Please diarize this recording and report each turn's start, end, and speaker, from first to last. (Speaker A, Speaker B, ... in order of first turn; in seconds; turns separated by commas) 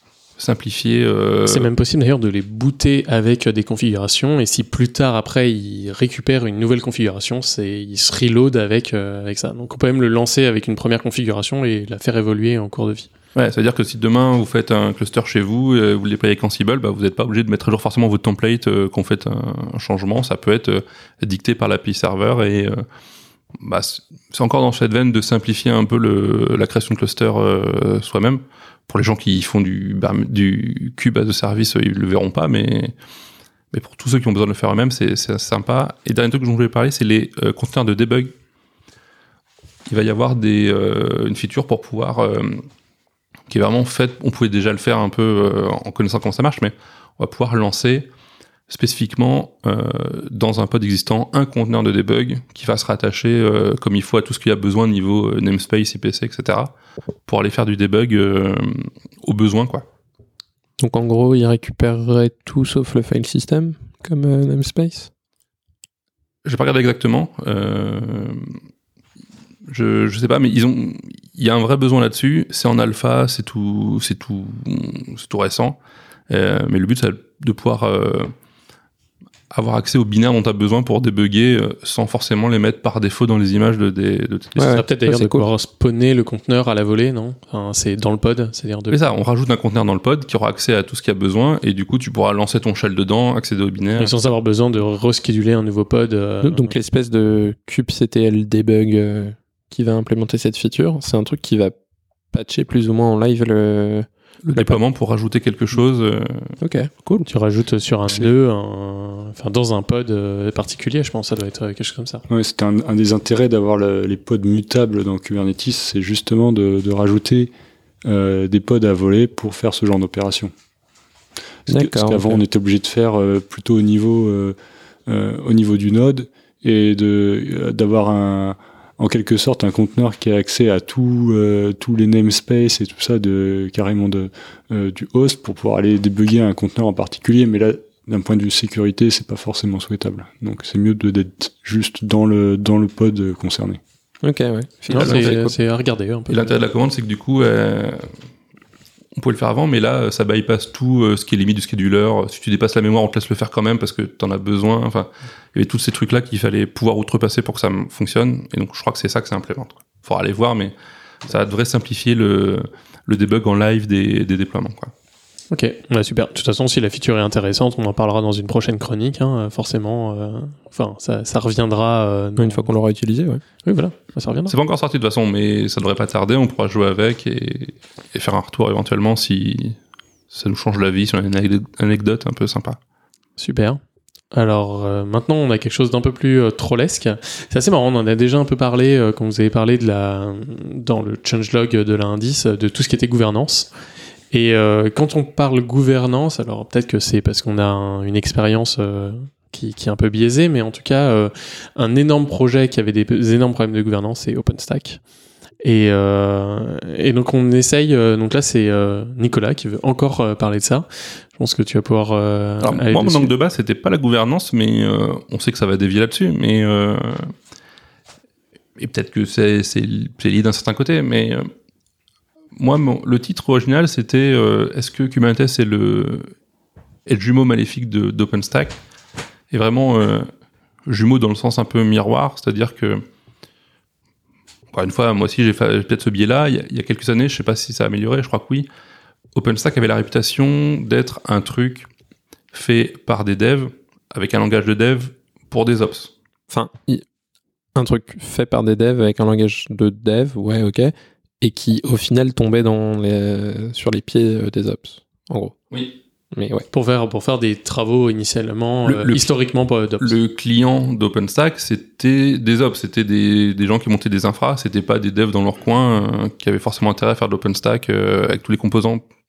Speaker A: 0.4-1.7, Speaker B: 1.5-13.1, Speaker A: 13.3-22.8, Speaker A: 23.6-32.9, Speaker A: 33.7-38.3, Speaker A: 39.9-42.7, Speaker A: 43.5-48.1, Speaker A: 48.7-56.7, Speaker A: 57.3-59.8, Speaker C: 60.8-65.1, Speaker A: 66.4-68.5, Speaker A: 69.7-75.8, Speaker A: 76.3-78.3, Speaker A: 79.5-84.8, Speaker C: 84.6-85.5, Speaker B: 84.7-89.0, Speaker A: 88.9-94.1, Speaker B: 94.0-96.7, Speaker C: 96.4-101.7, Speaker C: 102.3-104.8, Speaker A: 104.4-106.5, Speaker C: 106.6-107.3, Speaker B: 107.2-112.2, Speaker D: 112.3-117.5, Speaker D: 118.0-120.5, Speaker C: 121.7-122.4, Speaker D: 121.7-124.5, Speaker D: 125.0-143.8, Speaker C: 144.2-145.5, Speaker B: 144.9-146.5, Speaker A: 144.9-145.4, Speaker A: 146.3-148.1, Speaker A: 149.2-164.9, Speaker B: 165.5-172.7, Speaker C: 172.4-173.4, Speaker B: 173.6-174.5, Speaker A: 174.5-179.8, Speaker A: 180.3-182.8, Speaker B: 183.4-183.8, Speaker B: 184.3-193.7, Speaker B: 194.3-205.0, Speaker B: 205.6-213.3, Speaker A: 212.6-217.3, Speaker A: 218.8-221.5, Speaker A: 222.6-226.3, Speaker A: 227.1-228.8, Speaker A: 229.5-230.3, Speaker A: 230.8-233.0, Speaker A: 234.7-238.7, Speaker A: 239.3-241.9, Speaker A: 242.5-246.1, Speaker C: 246.5-247.0, Speaker C: 247.7-255.6, Speaker C: 256.3-256.7, Speaker B: 256.7-260.1, Speaker A: 258.8-259.3, Speaker A: 260.0-269.0